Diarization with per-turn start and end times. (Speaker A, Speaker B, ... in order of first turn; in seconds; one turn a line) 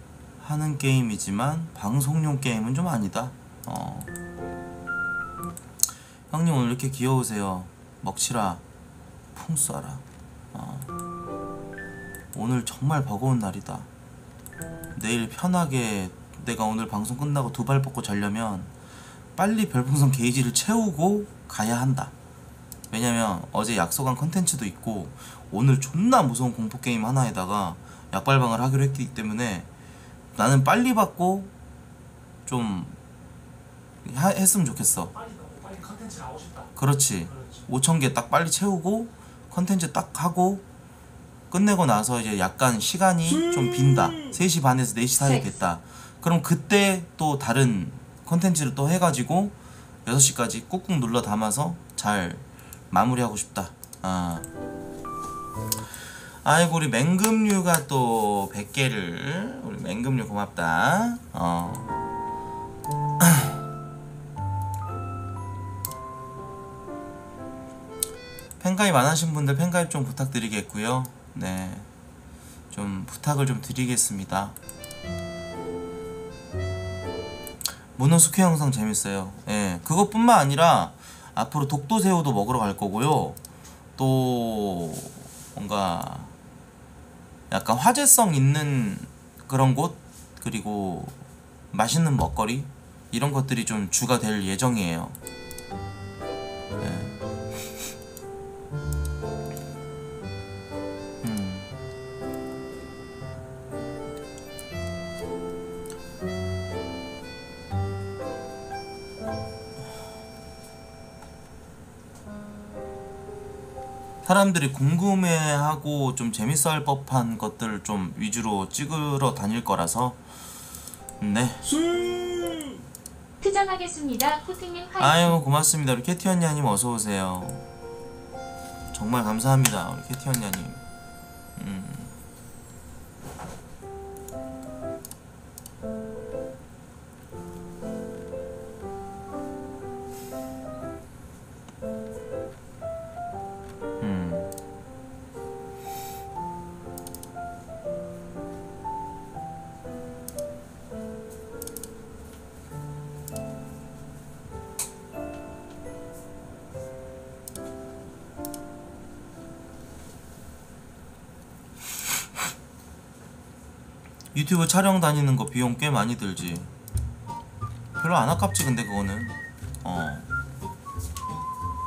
Speaker A: 0.4-4.1
Speaker A: 6.3-8.6
Speaker A: 9.3-10.9
Speaker A: 12.3-13.9
Speaker A: 14.9-18.7
Speaker A: 19.4-22.1
Speaker A: 22.9-29.7
Speaker A: 30.4-31.5
Speaker A: 32.5-33.0
Speaker A: 34.0-35.1
Speaker B: 35.1-36.7
Speaker A: 36.8-40.6
Speaker B: 37.2-37.6
Speaker A: 41.5-54.4
Speaker C: 45.2-45.5
Speaker A: 56.4-61.9
Speaker A: 68.6-71.9
Speaker A: 72.7-74.5
Speaker A: 77.9-83.4
Speaker A: 84.0-86.3
Speaker A: 87.5-91.2
Speaker A: 91.7-95.2
Speaker A: 96.8-97.1
Speaker A: 101.2-101.7
Speaker A: 114.2-120.2
Speaker A: 121.2-121.7
Speaker C: 123.4-125.4
Speaker A: 125.0-127.6
Speaker A: 128.9-130.8
Speaker A: 131.6-132.1
Speaker A: 144.0-144.5
Speaker A: 164.3-166.7
Speaker A: 167.9-170.3